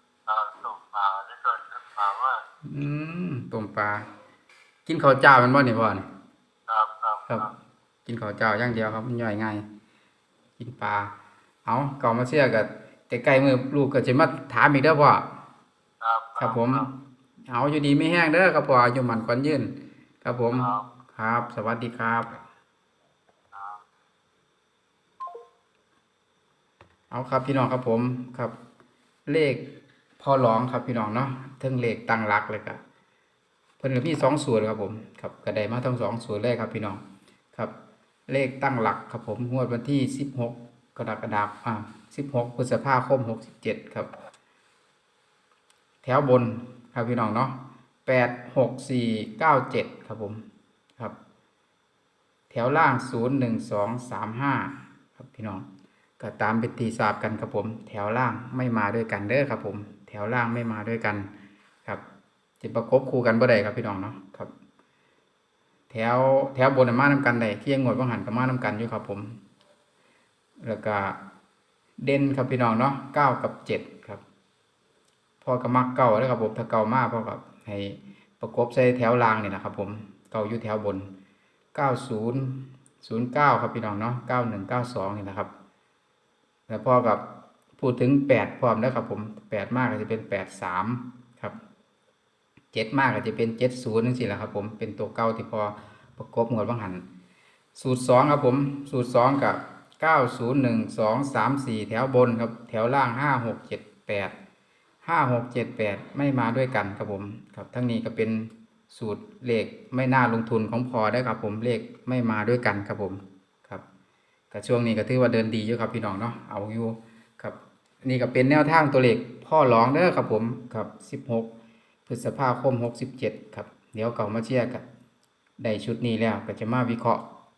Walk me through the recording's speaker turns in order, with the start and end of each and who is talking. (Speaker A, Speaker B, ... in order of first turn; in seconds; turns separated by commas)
Speaker A: 0.3-2.4, Speaker B: 2.7-4.1, Speaker B: 4.9-6.1, Speaker A: 6.7-7.5, Speaker B: 8.1-9.6, Speaker B: 10.6-11.1, Speaker B: 11.7-15.3, Speaker A: 16.0-16.9, Speaker B: 16.4-16.9, Speaker B: 17.5-19.7, Speaker B: 20.2-22.4, Speaker A: 20.5-20.8, Speaker A: 23.5-23.8, Speaker B: 27.1-28.5, Speaker B: 29.3-29.7, Speaker B: 30.2-32.8, Speaker B: 33.8-37.0, Speaker B: 38.3-44.1, Speaker B: 46.0-50.4, Speaker B: 52.5-55.7, Speaker B: 56.2-61.3, Speaker B: 62.6-64.5, Speaker B: 65.9-69.4, Speaker B: 70.6-71.2, Speaker B: 72.0-74.2, Speaker B: 75.4-81.1, Speaker B: 81.7-85.5, Speaker B: 86.7-87.2, Speaker B: 87.8-91.6, Speaker B: 92.7-97.0, Speaker B: 97.8-104.3, Speaker B: 105.0-113.8, Speaker B: 114.5-121.5, Speaker B: 122.1-124.8, Speaker B: 125.6-127.2